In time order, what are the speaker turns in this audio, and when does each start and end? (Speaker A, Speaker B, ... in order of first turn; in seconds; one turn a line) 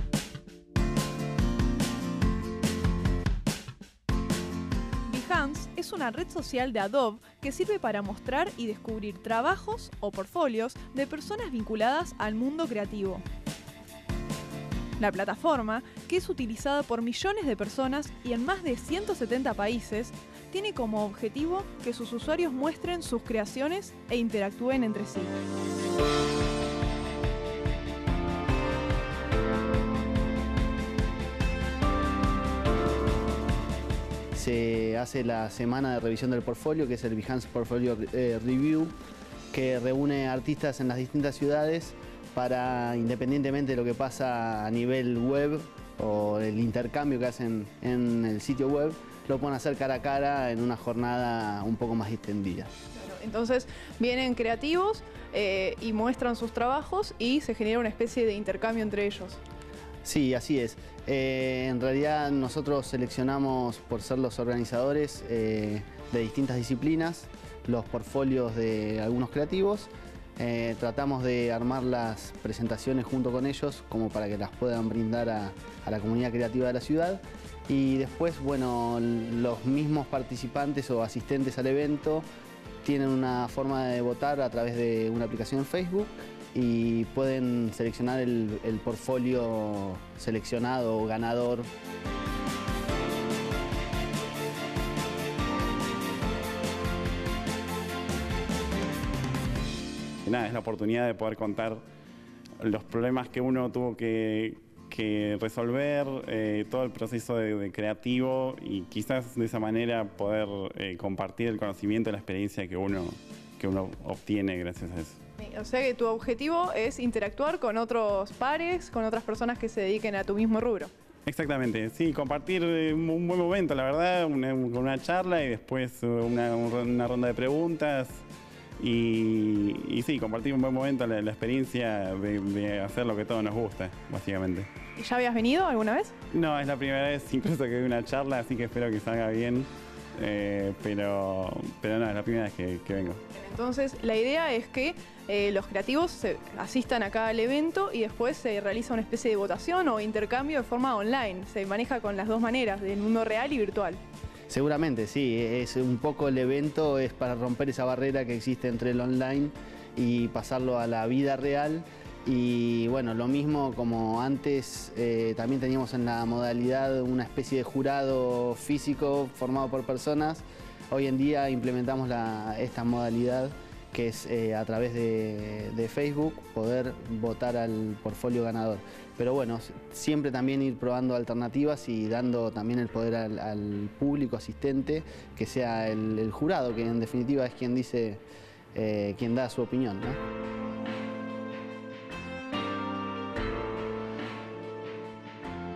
Speaker A: 5.0-13.2
Speaker A: 15.0-25.3
Speaker B: 34.3-38.9
Speaker B: 39.5-52.7
Speaker A: 53.0-59.4
Speaker B: 60.0-82.2
Speaker B: 82.8-91.7
Speaker C: 100.2-101.8
Speaker C: 102.6-115.2
Speaker A: 115.4-120.9
Speaker C: 121.3-128.2
Speaker C: 128.8-134.7
Speaker A: 135.0-136.1
Speaker C: 136.3-143.2
Speaker A: 143.3-154.0
Speaker B: 154.5-188.2
Speaker B: 188.7-190.2